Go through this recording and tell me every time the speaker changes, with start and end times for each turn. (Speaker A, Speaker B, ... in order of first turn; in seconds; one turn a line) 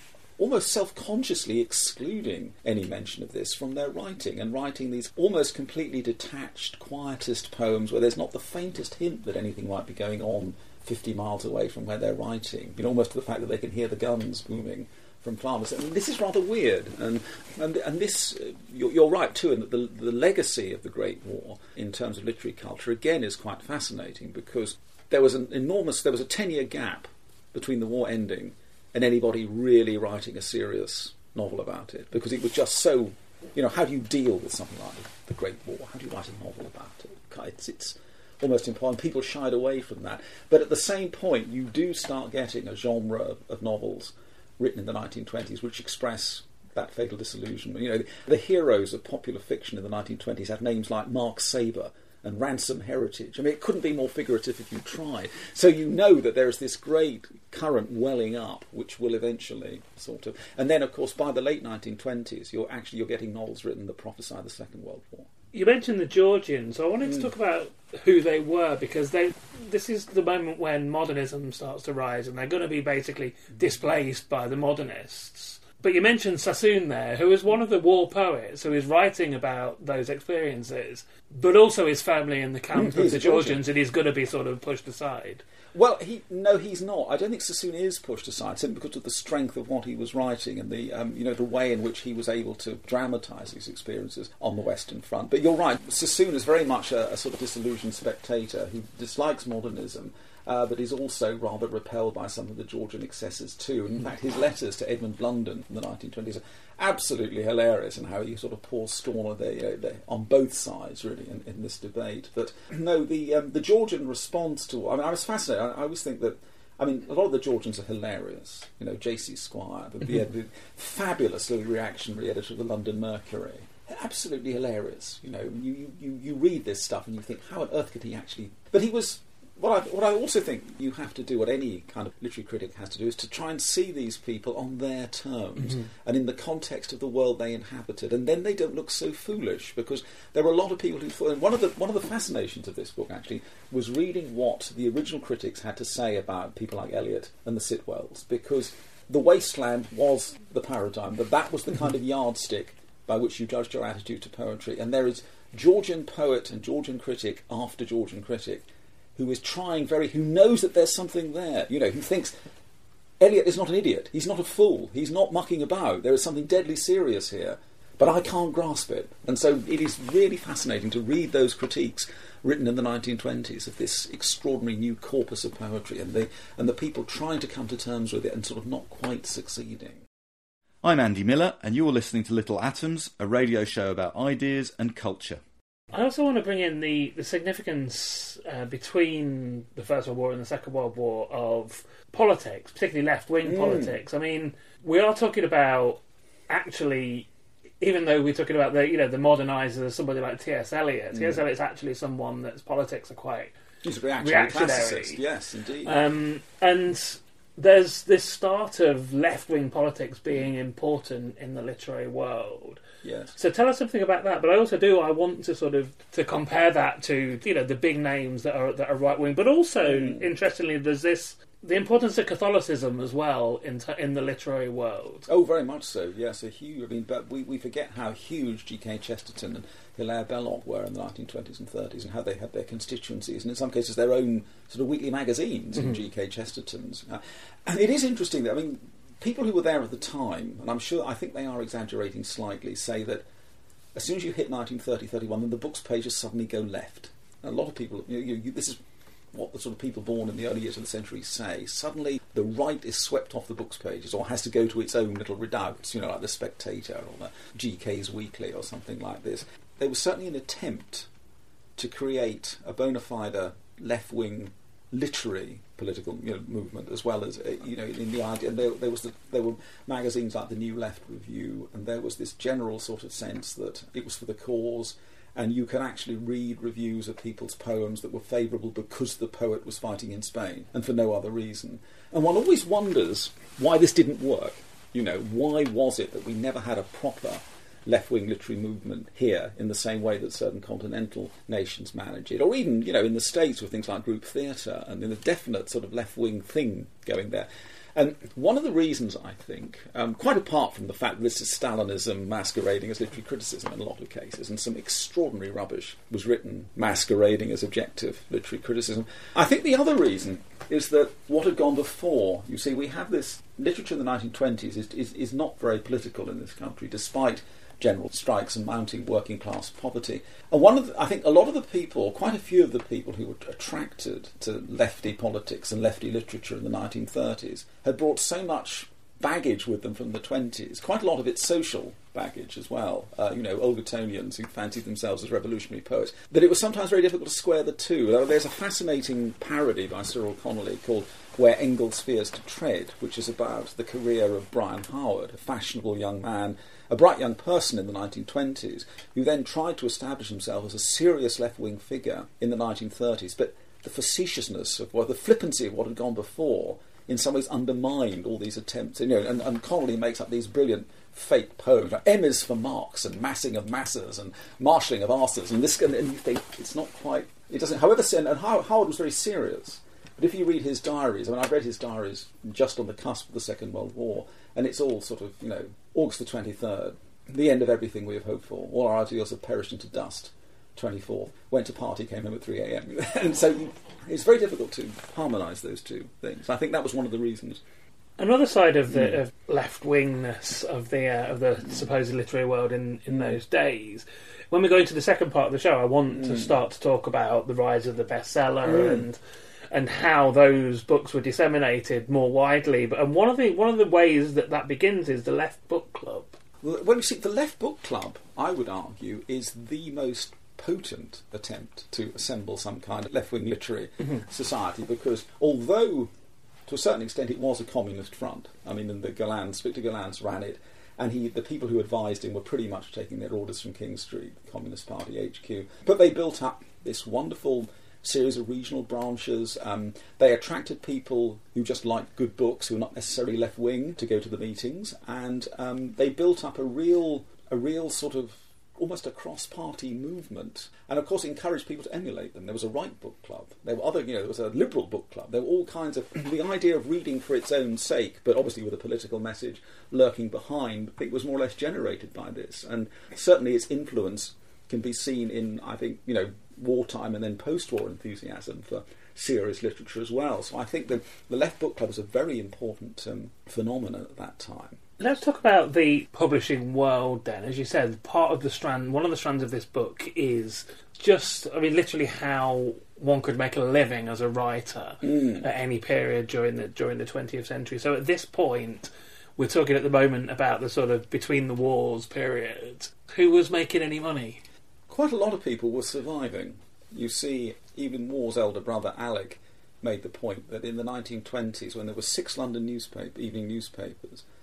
Speaker A: 0.4-65.3
Speaker B: 65.5-85.4
Speaker A: 82.7-83.6
Speaker A: 85.7-162.3
Speaker A: 163.2-180.0
Speaker C: 180.8-185.4
Speaker B: 185.9-197.3
Speaker A: 193.4-194.0
Speaker B: 197.8-203.6
Speaker A: 201.1-201.4
Speaker A: 203.8-206.0
Speaker B: 204.2-205.2
Speaker B: 205.8-212.8
Speaker A: 213.0-213.4
Speaker B: 213.4-225.3
Speaker A: 219.9-220.3
Speaker A: 225.3-243.2
Speaker A: 243.9-248.8
Speaker A: 249.3-261.1
Speaker A: 261.8-387.6
Speaker B: 388.2-399.2
Speaker A: 388.9-389.2
Speaker A: 396.1-396.5
Speaker A: 398.6-399.1
Speaker B: 399.7-406.4
Speaker A: 406.6-416.1
Speaker A: 416.7-464.8
Speaker B: 465.0-484.4
Speaker A: 475.0-475.4
Speaker A: 484.9-494.2